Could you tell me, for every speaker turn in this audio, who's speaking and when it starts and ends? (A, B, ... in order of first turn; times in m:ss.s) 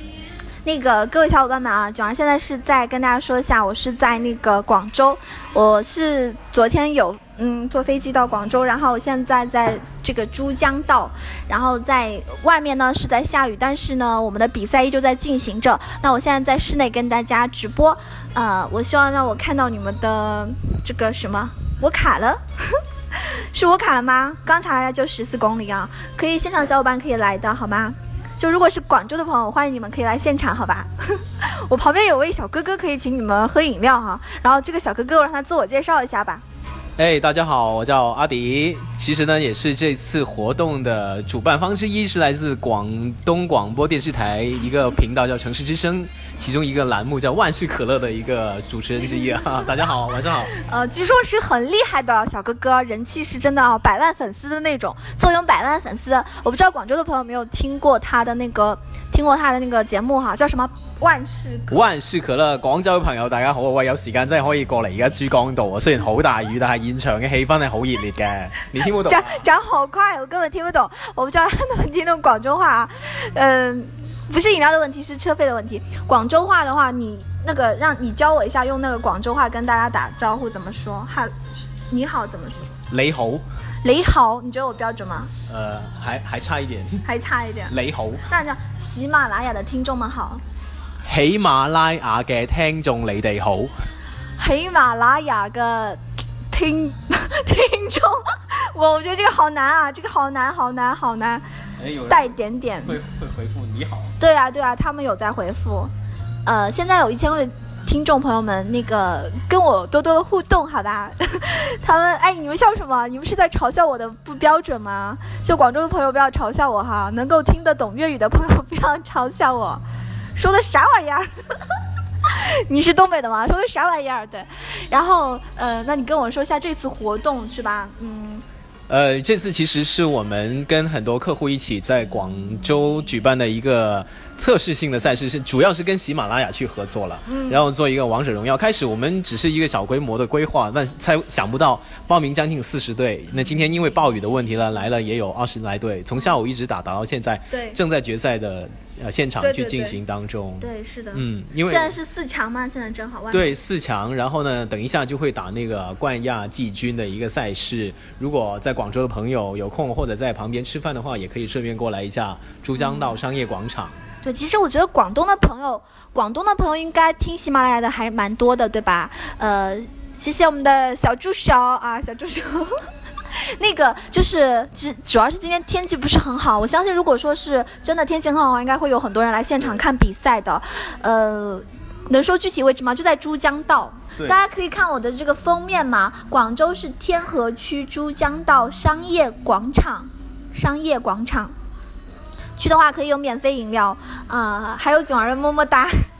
0:00.6-0:36.4 A
0:37.0-0:50.5 B
0:50.5-1:01.8 A
1:01.7-1:09.4 B
1:09.0-1:21.3 A
1:21.9-1:22.7 A
1:22.9-1:23.4 B
1:23.8-1:25.3 A
1:25.5-1:27.0 B
1:27.0-1:30.4 A
1:27.7-1:28.2 B
1:31.0-1:33.7 B
1:34.4-1:36.0 A
1:36.5-1:41.4 A
1:41.8-1:44.1 B
1:42.1-1:43.0 A
1:44.2-1:45.9 A
1:46.4-1:59.8 A
2:00.3-2:01.3 A
2:02.2-2:08.4 A
2:08.9-2:31.9 B
2:17.3-2:17.6 A
2:27.5-2:27.8 A
2:29.4-2:30.0 A
2:30.6-2:33.5 A
2:33.3-2:44.0 B
2:42.8-2:43.2 A
2:44.2-2:52.9 A
2:53.4-3:11.5 A
3:12.6-3:15.9 A